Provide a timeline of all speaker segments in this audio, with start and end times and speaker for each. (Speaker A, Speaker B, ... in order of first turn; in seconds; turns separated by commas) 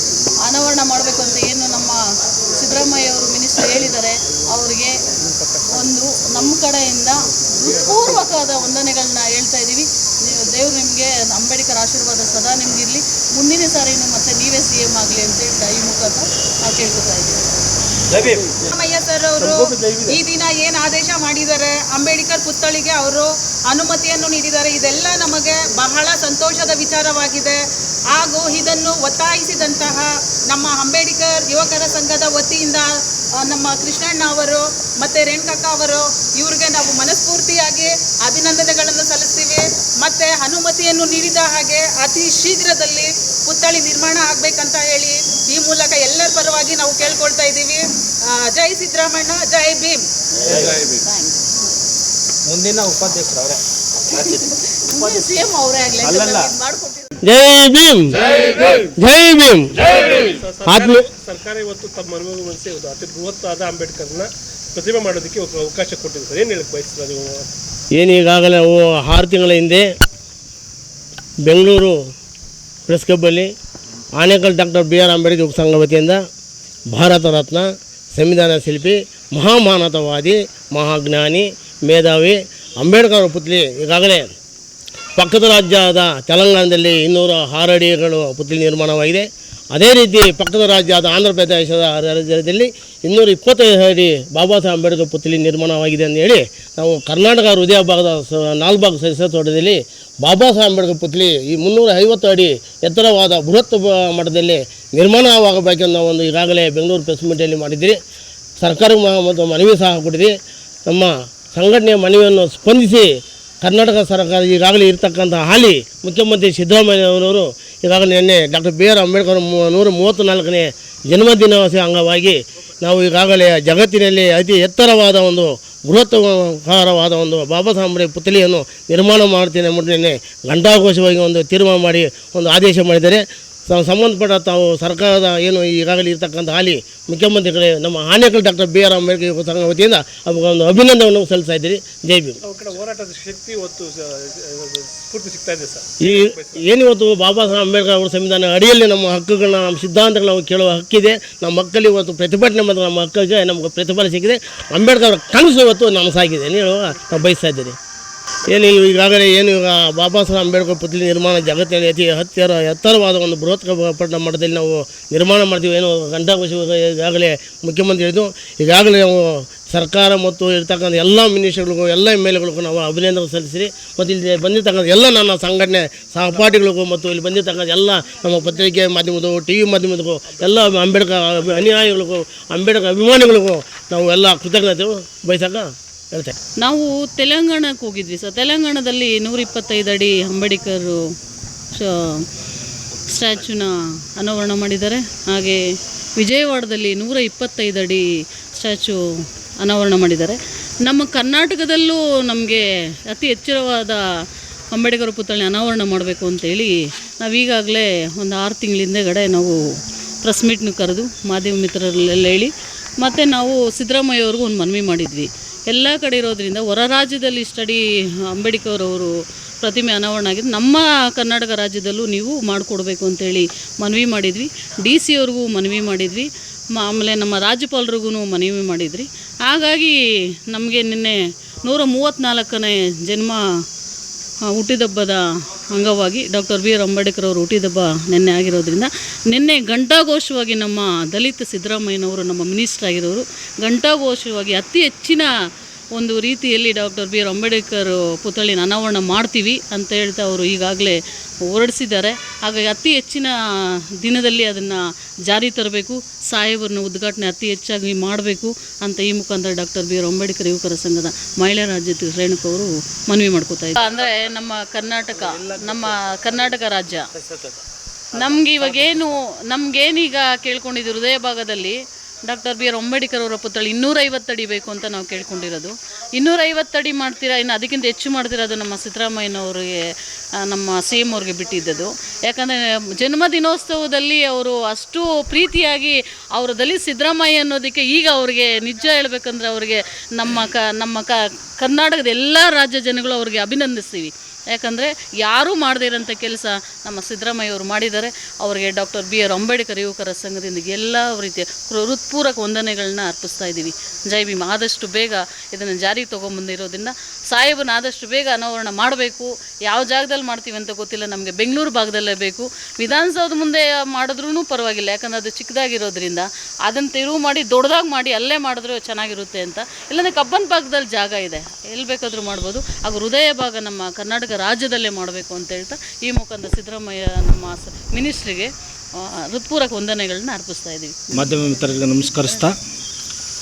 Speaker A: 0.4-2.0, Speaker A: 2.5-5.0, Speaker A: 5.7-17.4, Speaker B: 18.7-50.0, Speaker A: 51.0-51.4, Speaker C: 52.5-53.6, Speaker A: 54.9-57.1, Speaker C: 56.1-56.5, Speaker D: 57.2-60.1, Speaker E: 59.9-67.4, Speaker D: 60.6-61.0, Speaker D: 67.9-69.8, Speaker D: 71.4-72.0, Speaker D: 72.9-73.5, Speaker D: 74.2-76.2, Speaker D: 76.9-84.3, Speaker D: 85.2-108.0, Speaker D: 108.6-110.3, Speaker D: 110.9-113.1, Speaker D: 113.6-142.4, Speaker E: 142.4-146.5, Speaker D: 146.0-157.7, Speaker D: 158.5-186.3, Speaker A: 186.6-191.0, Speaker A: 191.7-192.2, Speaker A: 193.1-195.6, Speaker A: 196.2-198.0, Speaker A: 198.5-199.0, Speaker A: 199.6-204.0, Speaker A: 204.7-209.6, Speaker A: 210.2-219.1, Speaker A: 219.6-229.9, Speaker A: 230.5-233.4, Speaker A: 234.5-245.3, Speaker A: 245.9-253.3, Speaker A: 254.0-267.1, Speaker C: 265.4-265.8, Speaker C: 267.2-267.6, Speaker A: 268.1-279.7, Speaker C: 268.1-268.9, Speaker A: 280.4-331.2, Speaker C: 331.1-332.5